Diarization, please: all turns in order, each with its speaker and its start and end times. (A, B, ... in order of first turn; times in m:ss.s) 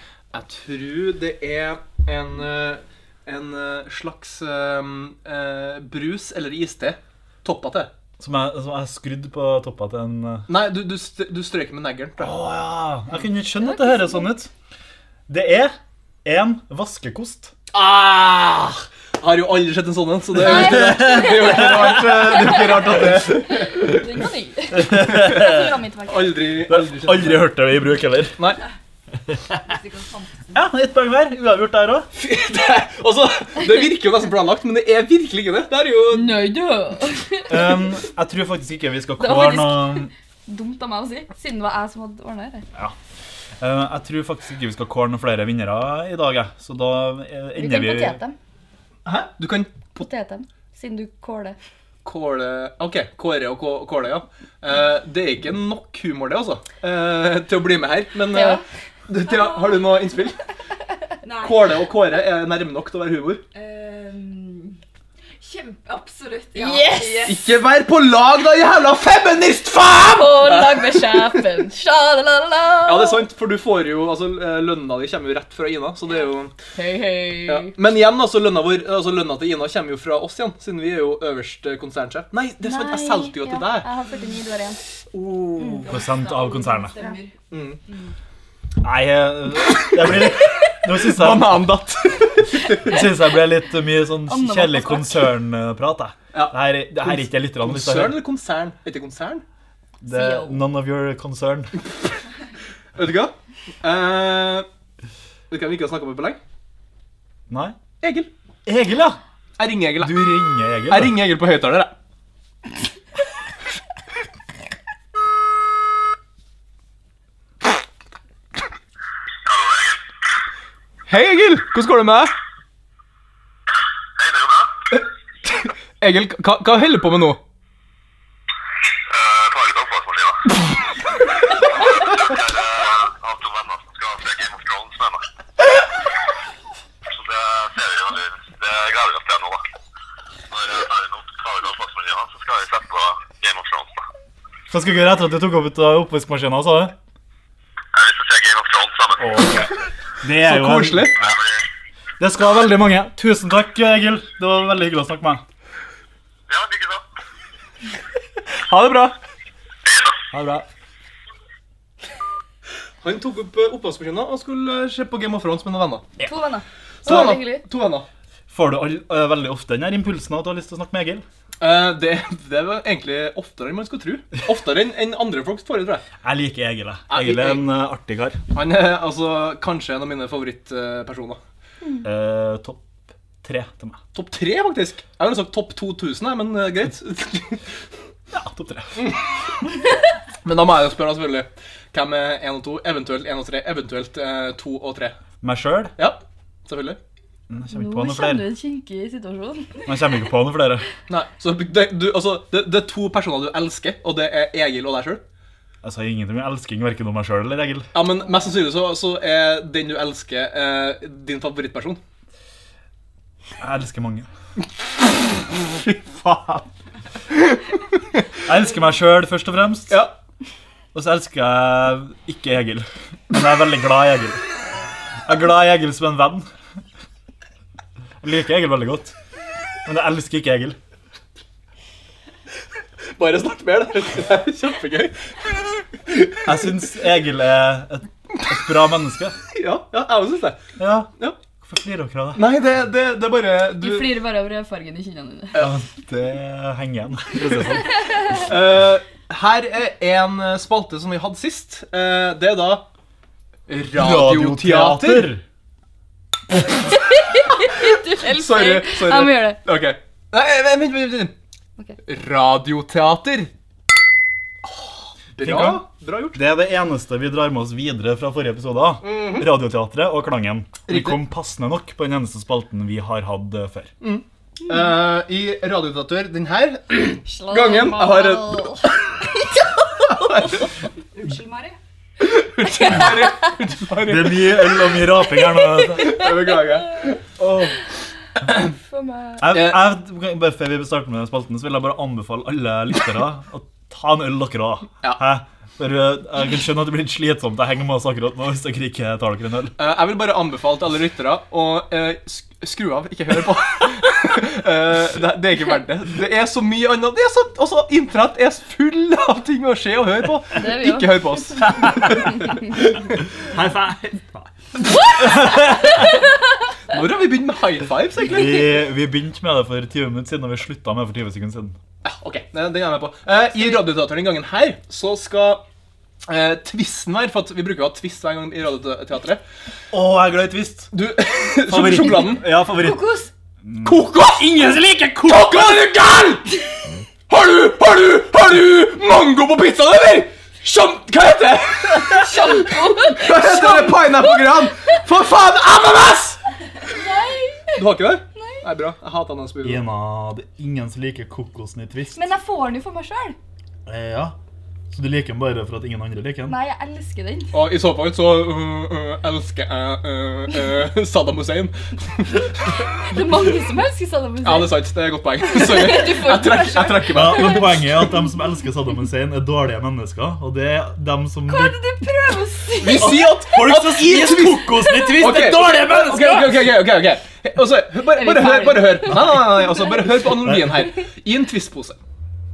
0:00.3-0:07.9 A
0:08.2-0:10.5 B
0:10.5-0:12.4 A
0:12.2-0:14.5 B
0:13.7-0:14.2 C
0:15.3-0:15.7 B
0:16.2-0:17.5 B
0:17.7-0:24.0 A
0:20.3-0:23.2 B
0:20.4-0:26.5 C
0:24.7-0:25.8 B
0:25.0-0:25.4 A
0:26.1-0:27.5 A
0:26.7-0:28.4 B
0:29.5-0:30.6 D
0:30.5-0:32.1 B
0:32.1-0:36.4 A
0:36.1-0:37.8 C
0:37.5-0:40.1 B
0:39.2-0:42.6 C
0:43.6-0:48.2 B
0:47.6-0:48.4 C
0:49.0-0:50.0 A
0:49.9-0:51.6 C
0:52.0-1:00.4 A
0:58.3-0:58.6 C
1:01.2-1:01.6 D
1:01.4-1:03.4 A
1:03.5-1:04.8 D
1:05.4-1:07.5 D
1:06.5-1:07.4 C
1:07.2-1:11.4 A
1:10.1-1:13.2 C
1:12.8-1:16.5 A
1:16.7-1:17.7 C
1:17.4-1:23.9 A
1:22.6-1:24.8 C
1:25.1-1:25.9 A
1:25.6-1:25.9 C
1:25.8-1:27.3 D
1:25.9-1:26.9 B
1:27.5-1:27.8 A
1:28.8-1:31.7 B
1:29.8-1:30.2 A
1:30.7-1:33.0 A
1:32.8-1:38.2 B
1:34.2-1:35.3 C
1:36.3-1:39.4 A
1:40.0-1:41.7 B
1:40.0-1:40.6 C
1:43.0-1:44.6 A
1:45.5-1:46.4 A
1:47.5-1:47.8 B
1:48.0-1:48.3 A
1:48.6-1:49.2 B
1:49.6-1:51.9 A
1:50.0-1:51.2 B
1:59.4-2:00.0 E
2:01.1-2:02.3 A
2:04.2-2:04.7 E
2:05.5-2:07.4 A
2:09.1-2:10.6 E
2:11.6-2:15.2 E
2:17.0-2:19.6 E
2:20.5-2:24.0 E
2:24.7-2:26.9 B
2:27.9-2:29.7 E
2:29.2-2:29.7 B
2:30.2-2:31.3 B
2:30.4-2:31.2 A
2:31.2-2:31.5 E
2:32.2-2:35.4 B
2:36.5-2:37.0 E
2:38.5-2:39.2 A
2:39.8-2:40.2 E
2:40.3-2:40.6 B
2:43.0-2:46.1 A
2:46.2-2:47.6 C
2:47.0-2:48.1 A
2:48.5-2:51.2 B
2:51.6-2:56.0 A
2:56.2-2:58.4 B
2:57.1-2:57.6 A
2:58.5-3:01.4 A
3:02.0-3:04.0 B
3:04.1-3:07.6 A
3:08.3-3:09.1 B
3:10.4-3:15.2 A
3:15.4-3:15.9 B
3:16.0-3:17.0 A
3:17.5-3:18.5 B
3:17.7-3:19.9 C
3:19.8-3:20.9 B
3:21.1-3:25.2 A
3:25.8-3:27.9 B
3:27.9-3:32.0 A
3:33.6-3:34.3 B
3:35.5-3:36.6 A
3:37.3-3:38.2 A
3:38.4-3:40.0 B
3:39.9-3:40.1 A
3:40.9-3:44.4 B
3:45.2-3:46.5 B
3:48.2-3:49.1 B
3:49.8-3:50.8 B
3:53.2-3:55.2 A
3:56.0-3:56.5 A
3:56.4-3:59.4 B
3:59.5-4:00.6 A
4:00.8-4:01.1 B
4:01.6-4:02.4 B
4:02.3-4:04.1 A
4:03.8-4:05.6 C
4:05.6-4:08.0 B
4:08.3-4:12.8 A
4:13.7-4:15.3 A
4:13.9-4:15.4 B
4:17.0-4:19.6 C
4:17.8-4:21.3 A
4:22.0-4:23.5 A
4:25.3-4:26.4 A
4:25.4-4:33.9 B
4:29.0-4:29.5 A
4:30.9-4:31.2 A
4:34.0-4:38.8 A
4:37.2-4:38.9 C
4:40.0-4:40.7 A
4:41.1-4:41.8 D
4:42.2-4:44.8 A
4:44.0-4:46.3 B
4:45.8-4:47.2 A
4:47.4-4:47.7 B
4:48.7-4:49.4 C
4:49.4-4:59.7 B
4:49.5-4:49.8 A
4:59.8-5:13.2 A
5:10.5-5:11.6 C
5:11.7-5:12.3 B
5:13.3-5:14.5 B
5:14.9-5:16.1 C
5:15.2-5:16.0 B
5:16.9-5:18.7 A
5:18.2-5:21.8 B
5:22.0-5:25.6 A
5:26.3-5:29.4 A
5:29.9-5:30.9 B
5:30.9-5:32.4 A
5:31.7-5:33.0 B
5:32.6-5:33.3 C
5:33.6-5:35.5 B
5:33.8-5:36.5 A
5:37.3-5:46.4 A
5:42.1-5:44.7 C
5:46.8-5:47.8 C
5:47.7-5:49.8 A
5:48.4-5:48.6 C
5:49.6-5:52.3 B
5:52.1-5:53.4 C
5:53.8-5:54.4 B
5:54.9-5:56.6 B
5:56.5-5:57.5 C
5:57.5-6:02.8 A
6:03.0-6:04.8 C
6:04.4-6:08.1 A
6:05.4-6:07.6 C
6:07.1-6:11.8 B
6:11.5-6:13.2 C
6:12.8-6:22.0 A
6:12.8-6:16.6 B
6:14.7-6:16.4 C
6:18.2-6:19.0 C
6:19.1-6:19.4 B
6:20.2-6:20.8 B